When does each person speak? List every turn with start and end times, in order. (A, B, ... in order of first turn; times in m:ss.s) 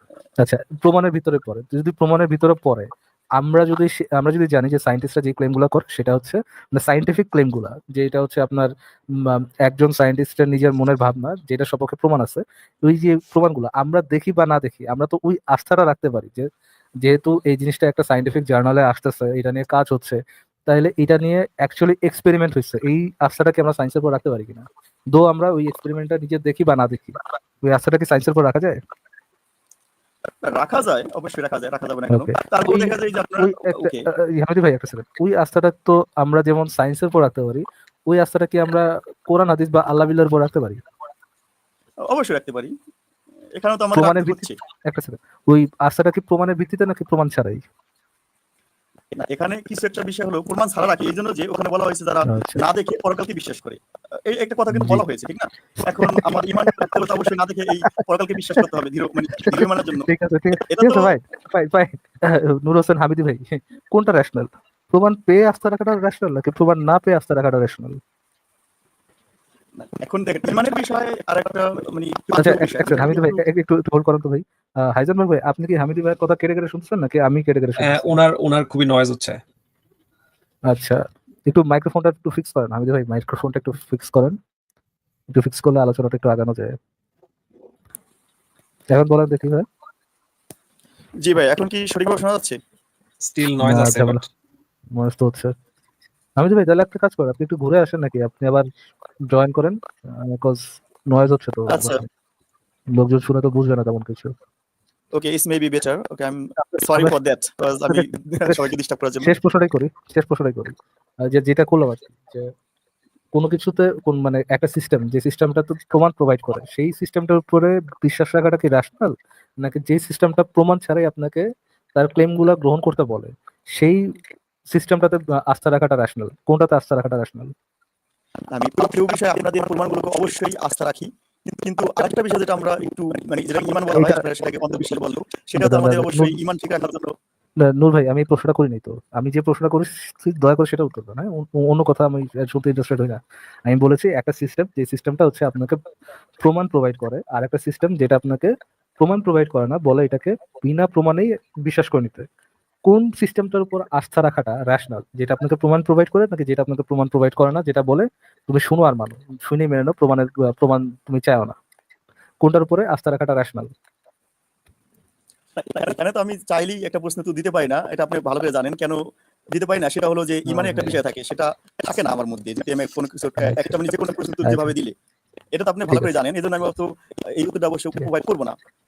0:00.4-0:08.7 A
0:09.2-0:16.4 A
0:17.0-0:28.8 A
0:30.4-0:34.1 B
0:32.1-0:40.8 A
0:42.1-0:42.7 B
0:43.6-0:44.5 B
0:43.9-0:47.6 A
0:49.1-1:00.1 B
0:52.3-0:52.6 A
0:54.7-0:55.0 A
0:59.4-1:08.0 A
1:00.6-1:01.2 B
1:09.8-1:13.4 B
1:12.4-1:18.2 A
1:17.8-1:19.4 C
1:20.7-1:24.4 A
1:25.3-1:26.8 A
1:28.9-1:29.6 A
1:31.2-1:32.6 B
1:33.2-1:34.2 C
1:33.6-1:34.2 A
1:34.9-1:35.5 A
1:36.4-1:38.7 A
1:39.3-1:42.0 A
1:41.7-1:42.0 B
1:42.9-1:44.3 A
1:45.1-1:49.3 B
1:46.6-1:47.2 A
1:47.9-1:50.8 A
1:51.3-1:52.5 A
1:53.3-2:04.1 A
2:04.7-2:07.5 A
2:08.5-2:17.1 B
2:13.9-2:14.2 A
2:15.6-2:16.3 A
2:17.7-2:25.8 A
2:26.4-2:32.3 A
2:32.8-2:41.6 A
2:42.4-2:43.7 A
2:45.6-2:49.0 B
2:49.5-2:54.9 B
2:50.5-2:51.0 A
2:53.4-2:53.7 A
2:54.4-2:54.7 A
2:55.5-2:58.6 B